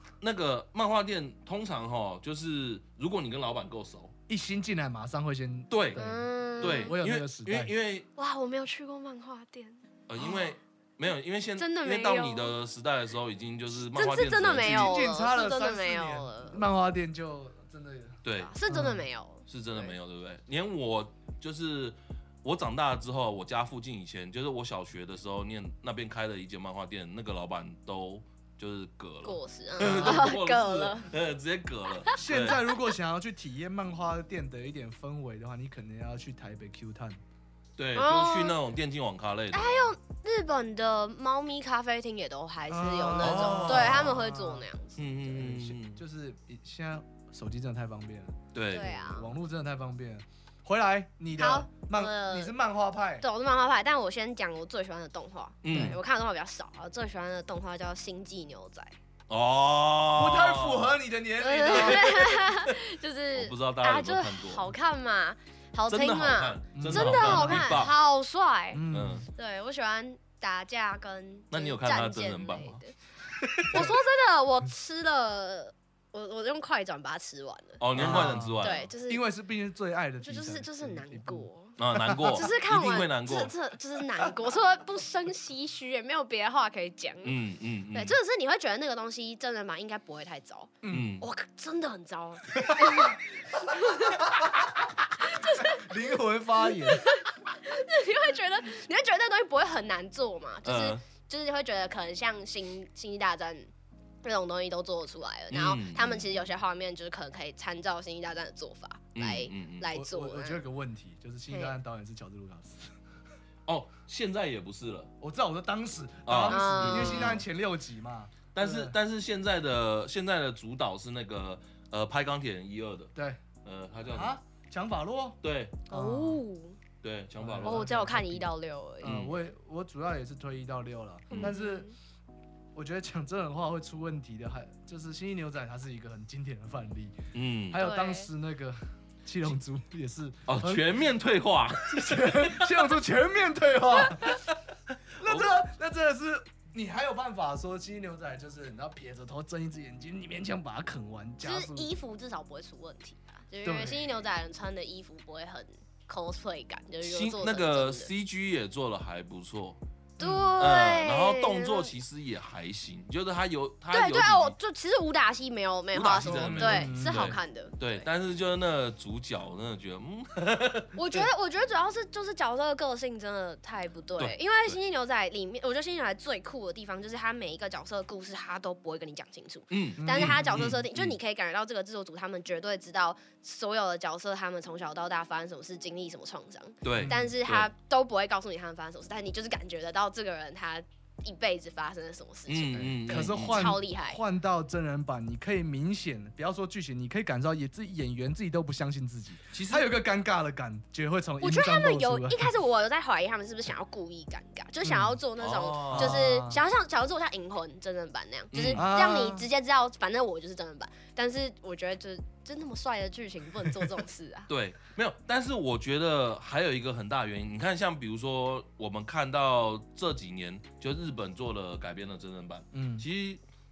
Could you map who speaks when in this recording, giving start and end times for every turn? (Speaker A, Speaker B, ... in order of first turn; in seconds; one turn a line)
Speaker A: 0.2-4.1
Speaker B: 4.3-7.7
Speaker A: 5.7-6.0
Speaker C: 6.0-7.0
Speaker A: 6.6-8.1
Speaker C: 8.2-9.8
Speaker A: 10.1-15.0
Speaker C: 11.6-12.5
Speaker C: 13.8-16.6
Speaker B: 14.6-19.0
Speaker A: 18.2-18.5
Speaker C: 18.4-19.9
Speaker A: 19.5-32.6
Speaker C: 29.2-31.1
Speaker B: 29.8-30.3
Speaker B: 32.2-37.2
Speaker A: 37.8-39.9
Speaker C: 38.0-38.6
Speaker C: 39.5-45.0
Speaker B: 42.7-44.6
Speaker A: 43.2-44.2
Speaker A: 45.0-46.0
Speaker B: 45.2-48.4
Speaker A: 48.5-49.0
Speaker C: 48.7-49.3
Speaker B: 48.9-53.2
Speaker C: 51.4-52.5
Speaker C: 53.2-59.0
Speaker A: 55.6-56.0
Speaker B: 55.7-56.0
Speaker A: 59.3-61.0
Speaker B: 60.1-62.5
Speaker C: 61.4-68.8
Speaker A: 63.3-64.7
Speaker A: 65.9-67.9
Speaker B: 66.7-67.9
Speaker B: 68.7-69.2
Speaker A: 68.9-69.3
Speaker C: 69.3-72.9
Speaker A: 71.5-72.8
Speaker A: 73.5-73.9
Speaker C: 73.6-79.2
Speaker A: 77.8-78.9
Speaker B: 77.9-82.5
Speaker C: 80.2-87.4
Speaker A: 81.8-83.5
Speaker A: 87.2-88.2
Speaker C: 87.9-94.2
Speaker B: 90.8-91.1
Speaker A: 90.9-91.2
Speaker B: 92.5-97.1
Speaker C: 95.2-95.9
Speaker C: 96.8-103.7
Speaker A: 100.6-101.0
Speaker C: 104.2-110.6
Speaker A: 105.5-106.3
Speaker A: 109.1-109.9
Speaker B: 109.9-112.9
Speaker C: 111.5-111.8
Speaker A: 113.7-115.1
Speaker B: 115.2-119.0
Speaker A: 116.2-117.4
Speaker C: 116.5-117.4
Speaker A: 118.5-123.1
Speaker B: 123.1-123.4
Speaker A: 123.6-124.4
Speaker B: 124.1-125.4
Speaker A: 125.4-125.8
Speaker C: 125.9-126.8
Speaker B: 125.9-126.4
Speaker A: 127.0-127.9
Speaker B: 127.4-131.9
Speaker C: 127.6-129.2
Speaker A: 129.0-129.3
Speaker C: 131.3-131.9
Speaker B: 132.7-137.2
Speaker A: 137.3-137.8
Speaker B: 137.7-141.0
Speaker C: 137.7-138.3
Speaker A: 140.5-142.8
Speaker B: 141.9-144.4
Speaker B: 145.2-151.9
Speaker A: 145.2-145.6
Speaker C: 151.4-158.1
Speaker B: 153.6-154.1
Speaker A: 157.0-159.8
Speaker B: 160.2-160.6
Speaker C: 160.2-161.9
Speaker A: 160.6-164.5
Speaker C: 163.9-168.1
Speaker A: 165.9-170.9
Speaker B: 166.2-167.4
Speaker C: 170.9-194.2
Speaker A: 174.2-174.8
Speaker A: 179.7-181.1
Speaker B: 180.0-180.6
Speaker A: 186.8-187.7
Speaker B: 186.9-187.3
Speaker A: 192.5-193.8
Speaker B: 193.1-202.5
Speaker A: 199.5-199.9
Speaker C: 201.4-214.5
Speaker B: 204.8-205.2
Speaker A: 205.4-206.2
Speaker B: 205.9-206.6
Speaker A: 208.5-208.8
Speaker B: 208.7-209.5
Speaker A: 214.5-223.4
Speaker B: 222.7-223.1